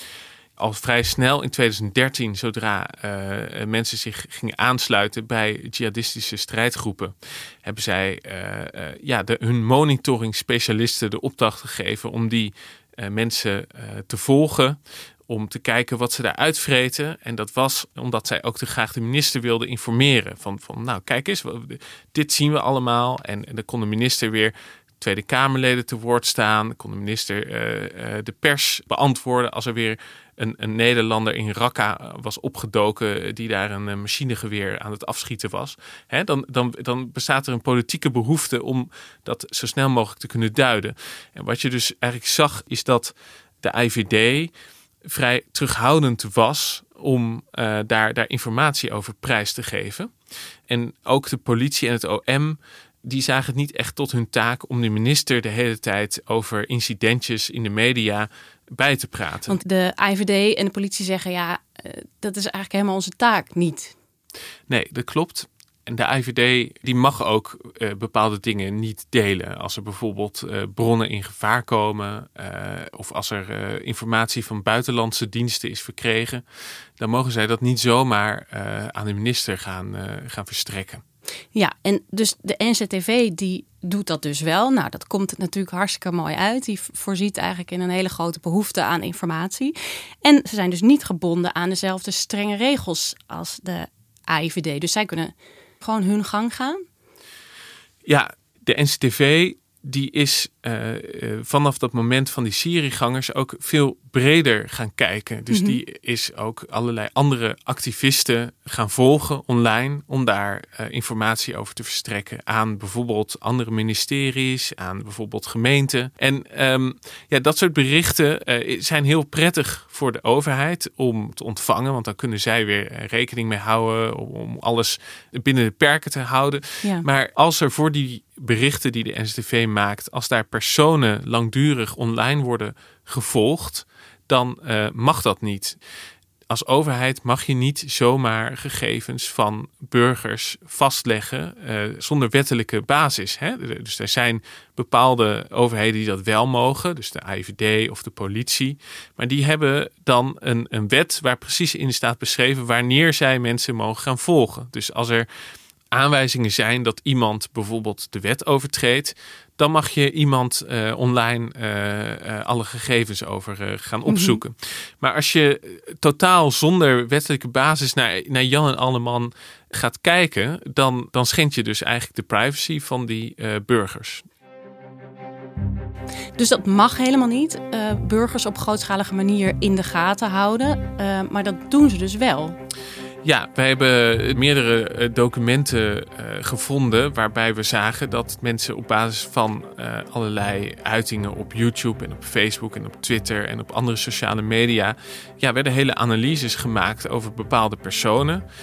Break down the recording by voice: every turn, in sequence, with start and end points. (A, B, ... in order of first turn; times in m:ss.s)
0:00.6-0:44.5 A
0:45.1-0:50.1 A
0:50.7-0:59.6 A
0:59.5-1:03.9 B
1:04.7-1:16.4 A
1:17.0-1:21.0 A
1:21.5-1:36.8 B
1:38.0-2:15.8 A
1:45.5-1:45.8 B
2:16.5-2:35.2 A
2:35.9-2:54.2 A
2:44.1-2:44.4 B
2:56.4-3:02.6 B
3:03.2-3:18.4 A